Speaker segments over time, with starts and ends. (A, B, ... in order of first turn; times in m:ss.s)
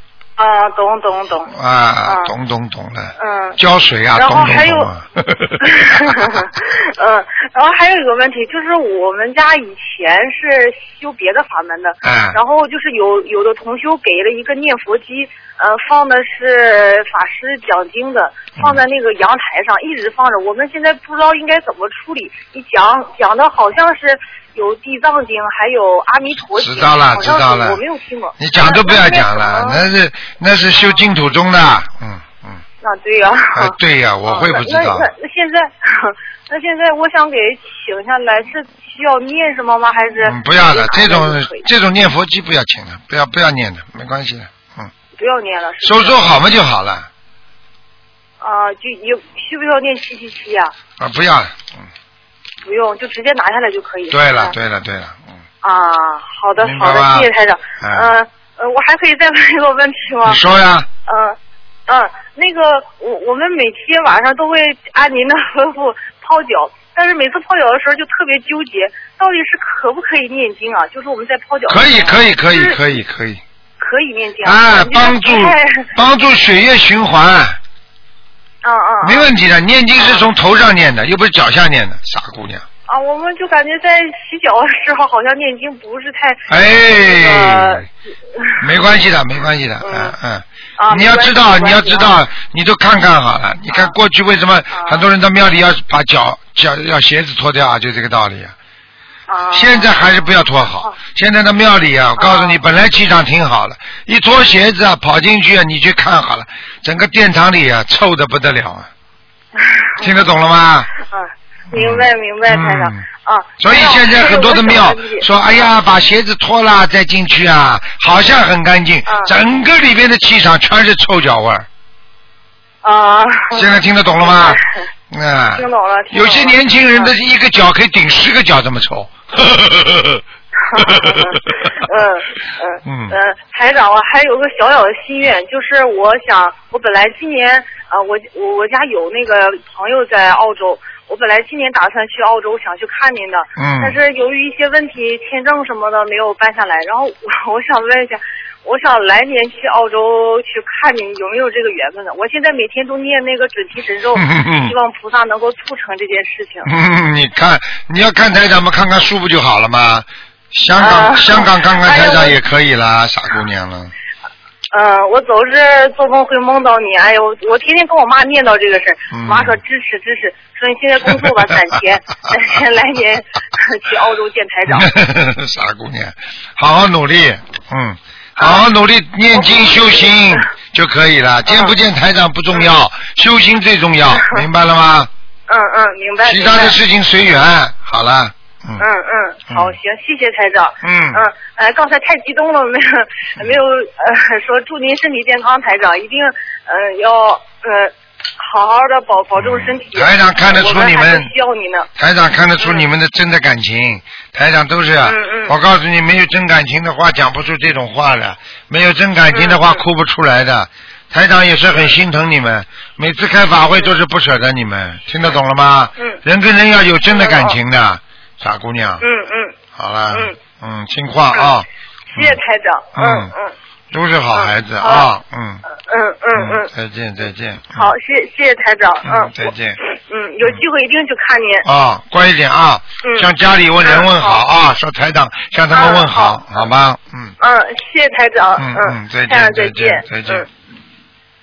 0:00.4-0:01.5 A
0:01.5-0:06.4 B
0:02.1-0:02.3 A
0:03.2-0:03.6 A
0:04.2-0:04.9 A
0:05.6-0:29.8 A
0:12.0-0:12.4 B
0:26.6-0:27.8 B
0:28.4-0:32.6 B
0:32.8-0:33.8 A
0:33.6-0:35.1 B
0:34.3-0:41.7 A
0:40.2-0:44.9 B
0:45.2-0:46.2 A
0:45.8-0:47.1 B
0:48.4-0:50.7 A
0:51.0-0:51.9 B
0:52.6-0:54.6 A
0:54.1-0:55.3 B
0:55.6-1:00.4 A
0:56.6-0:58.1 B
1:00.2-1:00.9 B
1:01.1-1:12.8 A
1:11.7-1:13.4 B
1:13.8-1:15.8 A
1:14.4-1:17.6 B
1:18.6-1:19.3 A
1:19.0-1:22.6 B
1:20.0-1:20.2 A
1:22.9-1:27.9 A
1:26.5-1:27.9 B
1:28.4-1:28.6 A
1:28.6-1:38.5 B
1:29.8-1:30.1 A
1:30.8-1:32.1 A
1:34.7-1:35.1 A
1:39.3-1:40.2 A
1:39.5-1:48.9 B
1:42.2-1:42.6 A
1:49.6-1:50.2 A
1:50.0-1:50.9 B
1:51.1-1:55.2 A
1:51.7-1:53.1 B
1:53.6-2:01.7 B
1:59.1-1:59.3 A
2:02.8-2:04.8 A
2:03.5-2:04.6 B
2:05.1-2:10.2 B
2:05.6-2:07.1 A
2:10.6-2:36.7 A
2:10.8-2:11.3 B
2:12.8-2:13.2 B
2:23.6-2:24.0 B
2:34.2-2:34.8 B
2:36.6-2:43.9 B
2:40.8-2:42.4 A
2:44.7-2:54.9 A
2:49.1-2:49.6 B
2:54.7-3:05.1 B
2:58.4-2:58.7 A
2:59.4-3:00.4 A
3:01.5-3:01.8 A
3:05.5-3:06.8 A
3:06.2-3:08.8 B
3:08.8-3:21.9 A
3:09.5-3:09.8 B
3:10.8-3:11.2 B
3:19.4-3:21.3 B
3:22.0-3:39.0 B
3:22.6-3:22.8 A
3:25.0-3:25.5 A
3:29.3-3:29.8 A
3:37.1-3:37.6 A
3:39.0-3:39.6 A
3:39.8-3:42.4 B
3:42.1-3:43.6 A
3:43.0-3:43.3 B
3:43.9-3:45.6 B
3:44.3-3:45.1 A
3:45.9-3:46.7 A
3:46.3-3:47.9 B
3:47.8-3:51.7 A
3:49.0-3:49.8 B
3:51.6-3:57.4 B
3:53.0-3:53.3 A
3:53.8-3:54.4 A
3:55.7-3:56.4 A
3:57.4-4:00.5 A
3:58.6-4:00.5 B